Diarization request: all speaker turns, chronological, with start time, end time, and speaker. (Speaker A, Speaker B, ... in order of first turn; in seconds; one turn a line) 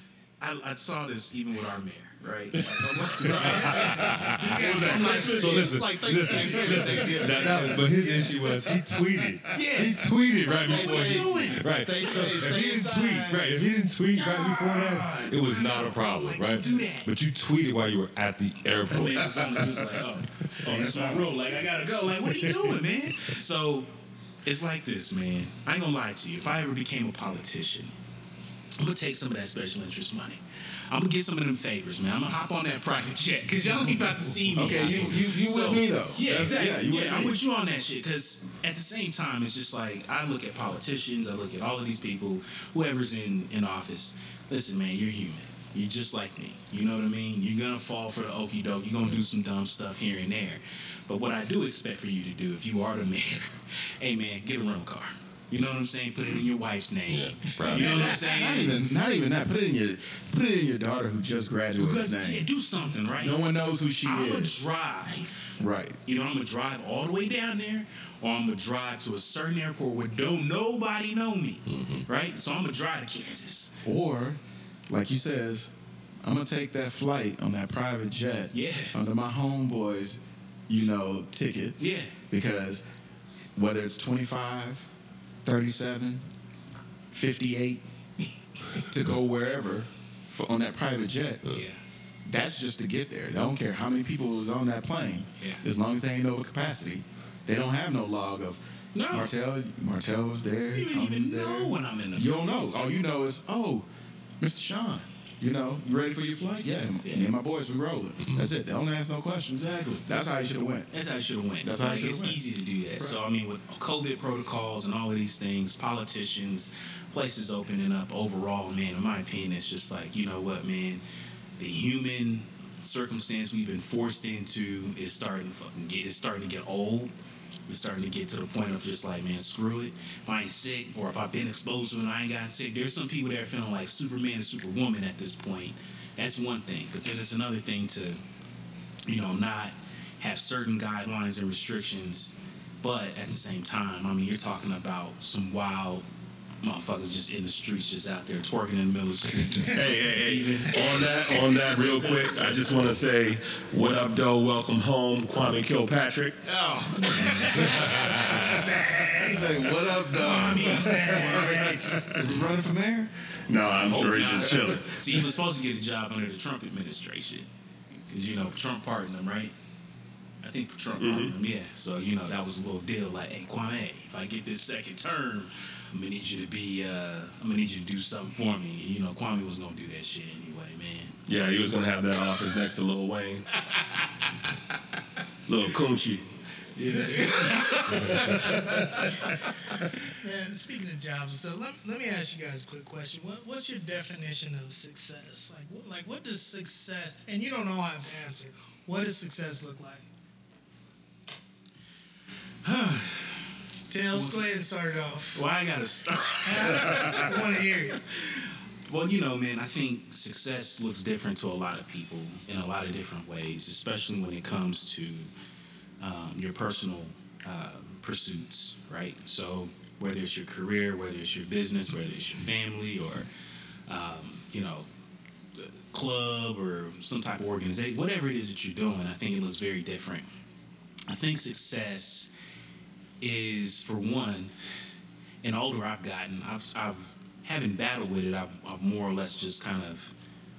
Speaker A: 0.4-8.0
Speaker B: 2.6-5.8
Speaker C: 3.2-3.9
Speaker D: 3.2-19.8
Speaker E: 4.6-5.0
Speaker C: 6.2-8.1
Speaker A: 9.5-11.7
Speaker C: 10.5-13.6
Speaker C: 14.1-15.2
Speaker A: 14.9-17.1
Speaker A: 18.9-23.9
Speaker D: 20.6-20.9
Speaker B: 20.7-21.3
Speaker D: 22.3-22.7
Speaker A: 24.4-27.9
Speaker A: 28.8-58.8
Speaker C: 34.5-37.4
Speaker D: 57.1-58.1
Speaker E: 57.6-58.3
Speaker C: 57.8-62.4
Speaker A: 61.8-63.4
Speaker C: 63.2-64.5
Speaker A: 64.0-73.8
Speaker C: 65.6-66.0
Speaker D: 71.7-72.1
Speaker C: 73.8-75.7
Speaker C: 76.2-82.8
Speaker A: 78.5-79.0
Speaker A: 81.8-82.1
Speaker C: 83.5-84.9
Speaker C: 85.4-86.2
Speaker C: 87.1-87.8
Speaker C: 88.7-91.4
Speaker A: 91.5-91.8
Speaker C: 92.2-103.9
Speaker A: 98.9-99.3
Speaker A: 100.7-102.9
Speaker C: 104.4-110.9
Speaker A: 107.0-107.3
Speaker A: 110.9-121.0
Speaker C: 111.6-112.4
Speaker A: 121.6-127.1
Speaker A: 127.7-138.2
Speaker A: 139.0-146.1
Speaker A: 146.6-151.3
Speaker B: 149.7-156.4
Speaker A: 156.4-161.9
Speaker D: 157.7-158.5
Speaker C: 159.1-163.1
Speaker B: 160.7-162.2
Speaker E: 161.1-161.4
Speaker B: 163.4-165.0
Speaker A: 163.9-167.5
Speaker A: 168.1-169.5
Speaker A: 170.4-181.2
Speaker B: 171.0-171.3
Speaker B: 181.3-183.5
Speaker A: 183.6-184.2
Speaker B: 185.4-186.2
Speaker A: 186.8-189.3
Speaker E: 186.9-187.9
Speaker B: 188.0-189.0
Speaker E: 190.1-200.1
Speaker A: 202.6-203.5
Speaker E: 203.9-205.4
Speaker A: 204.1-204.5
Speaker A: 205.3-207.4
Speaker E: 206.4-208.0
Speaker A: 208.1-215.3
Speaker A: 216.0-223.3
Speaker A: 223.9-224.9
Speaker A: 225.5-230.3
Speaker A: 231.1-232.3
Speaker A: 233.2-234.5
Speaker A: 235.4-240.1